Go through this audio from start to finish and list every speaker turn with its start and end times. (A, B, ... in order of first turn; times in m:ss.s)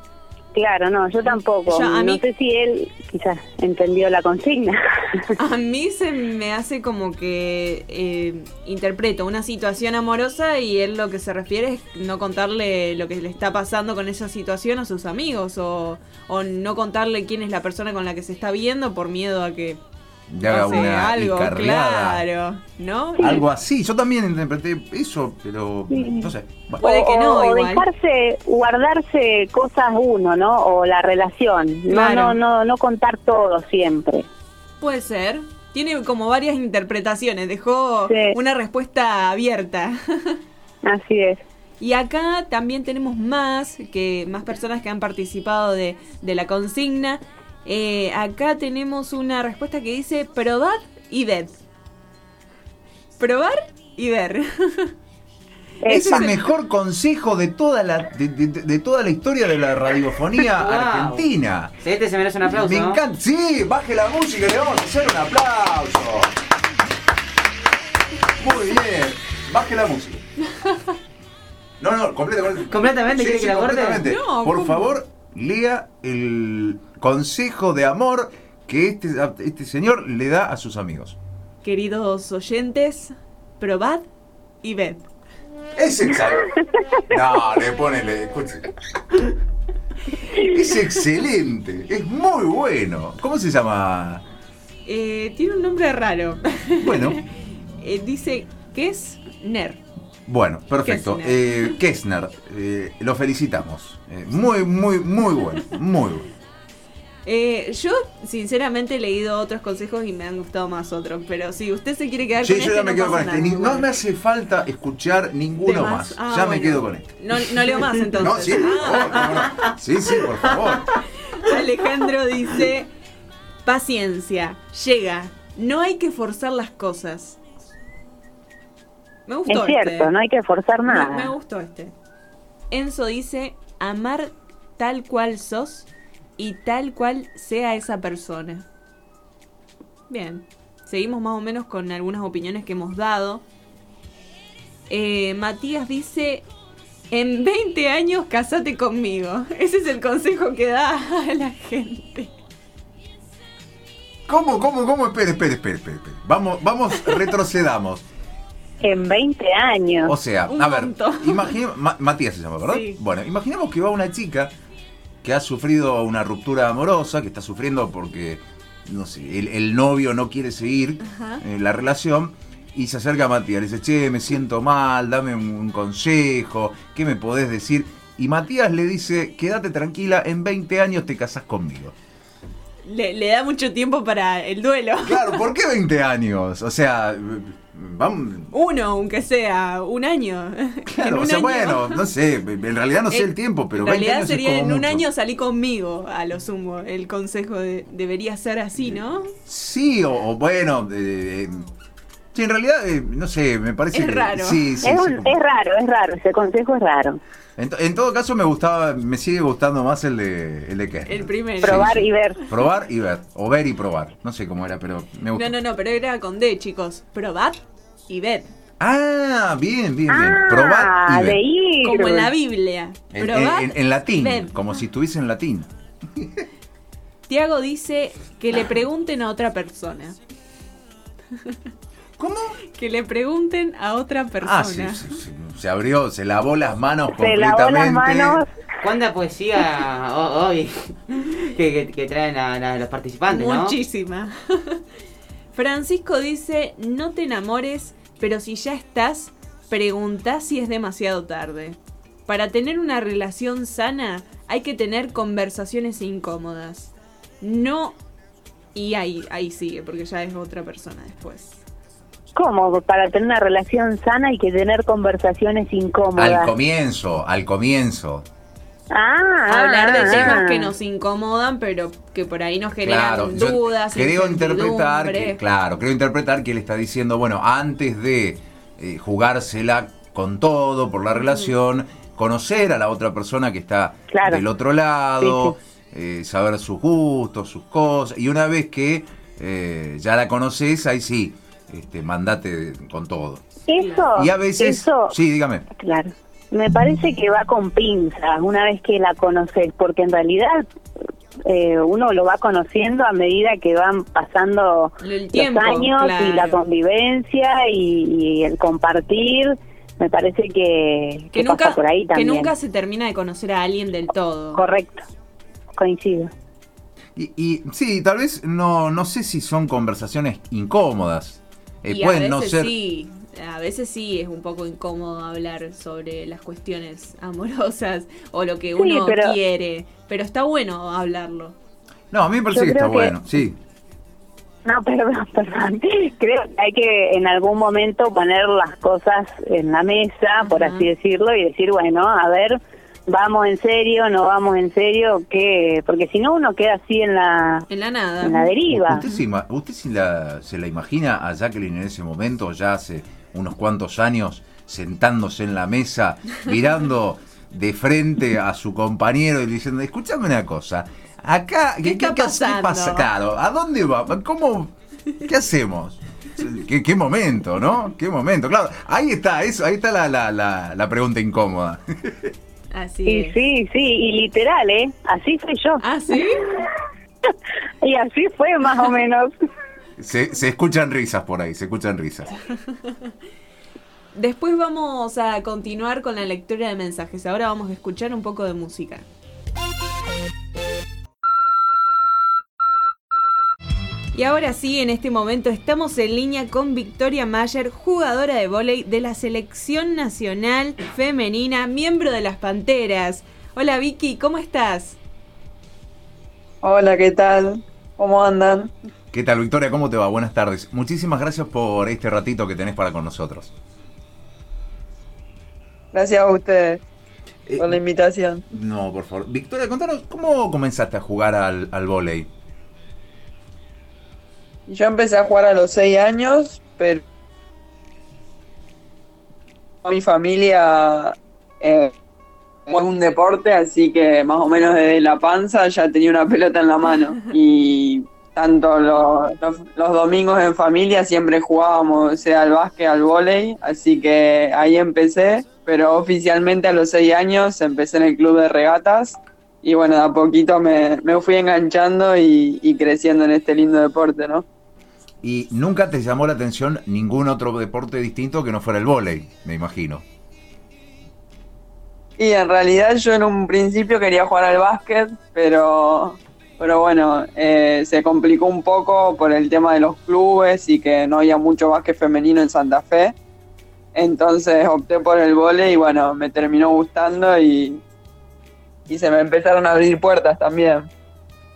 0:00.5-0:04.8 A
0:01.2-0:02.2 B
0:05.4-0:19.8 B
0:20.3-0:22.2 C
0:20.4-0:23.4 B
0:23.2-0:26.8 C
0:25.9-0:26.3 A
0:26.8-0:27.8 B
0:26.8-0:34.2 A
0:31.9-0:32.4 B
0:34.8-0:40.4 B
0:38.0-0:38.3 A
0:40.8-0:41.4 A
0:41.8-0:51.6 B
0:53.2-0:54.9 B
0:55.8-0:56.4 A
0:55.9-1:01.8 C
0:55.9-0:56.4 B
1:00.6-1:01.2 D
1:01.8-1:03.0 D
1:02.4-1:06.3 C
1:08.4-1:10.2 C
1:11.8-1:21.2 C
1:12.7-1:14.0 D
1:14.0-1:15.0 B
1:21.6-1:24.0 B
1:24.6-1:25.0 B
1:25.8-1:26.5 C
1:27.1-1:28.7 C
1:30.3-1:34.2 C
1:34.8-1:37.2 B
1:36.8-1:37.2 C
1:37.8-1:39.8 B
1:40.3-1:46.2 C
1:40.8-1:41.7 B
1:47.2-1:53.9 B
1:52.4-1:57.5 C
1:55.6-1:59.7 B
1:58.2-2:00.9 C
2:00.5-2:02.9 B
2:03.6-2:07.4 B
2:09.2-2:10.1 B
2:09.5-2:11.3 A
2:10.8-2:11.9 B
2:12.7-2:18.6 B
2:20.1-2:23.4 B
2:24.9-2:26.4 B
2:27.1-2:32.3 B
2:34.3-2:38.1 C
2:38.8-2:40.2 A
2:40.0-2:44.5 C
2:40.5-2:41.5 B
2:42.7-2:43.0 B
2:45.2-3:02.0 C
2:51.0-2:51.4 B
3:02.8-3:05.4 B
3:05.0-3:08.5 C
3:08.5-3:12.0 B
3:10.9-3:15.0 C
3:13.1-3:19.3 B
3:18.8-3:21.6 C
3:22.3-3:25.4 C
3:23.9-3:24.7 B
3:24.8-3:27.2 A
3:27.6-3:35.5 C
3:31.0-3:32.0 B
3:31.6-3:32.4 A
3:35.3-3:38.5 B
3:38.8-3:41.4 C
3:40.1-3:42.3 A
3:41.8-3:44.6 B
3:43.1-3:46.4 C
3:47.3-3:50.2 B
3:52.2-3:52.5 C
3:52.7-3:55.0 B
3:54.4-3:58.4 C
3:57.1-3:58.5 A
3:58.8-4:01.0 D
4:01.5-4:03.8 D
4:03.3-4:04.8 B
4:05.5-4:18.0 B
4:18.7-4:21.6 B
4:22.3-4:26.5 A
4:26.2-4:28.2 C
4:28.9-4:30.7 A
4:29.5-4:35.4 B
4:30.0-4:30.4 C
4:32.8-4:53.4 C
4:41.2-4:41.5 B
4:44.1-4:44.4 A
4:45.2-4:45.6 A
4:53.7-4:55.1 A
4:53.8-4:54.1 B
4:54.2-4:55.6 C
4:55.8-5:00.6 A
5:01.5-5:12.5 A
5:05.0-5:06.6 B
5:11.3-5:14.6 B
5:14.5-5:15.0 A
5:15.8-5:16.3 A
5:17.1-5:22.7 C
5:21.9-5:31.6 B
5:28.8-5:29.4 A
5:32.1-5:33.6 C
5:32.5-5:33.4 A
5:34.6-5:47.6 A
5:40.4-5:40.9 B
5:47.7-5:48.5 B
5:48.2-5:49.0 A
5:48.7-6:12.3 C
6:01.8-6:03.1 B
6:12.7-6:13.4 B
6:13.0-6:16.7 A
6:15.8-6:16.4 B
6:17.8-6:19.3 A
6:20.0-6:22.3 C
6:24.1-6:29.0 B
6:34.1-6:45.0 B
6:46.6-6:48.7 E
6:49.1-6:53.5 C
6:55.9-6:56.8 E
6:57.5-6:57.8 C
6:57.6-6:58.4 E
6:58.5-7:02.3 C
7:04.7-7:07.0 E
7:09.8-7:11.9 E
7:12.7-7:34.4 E
7:35.2-7:40.0 C
7:42.2-7:53.2 E
7:53.9-7:57.8 E
7:58.9-8:00.9 E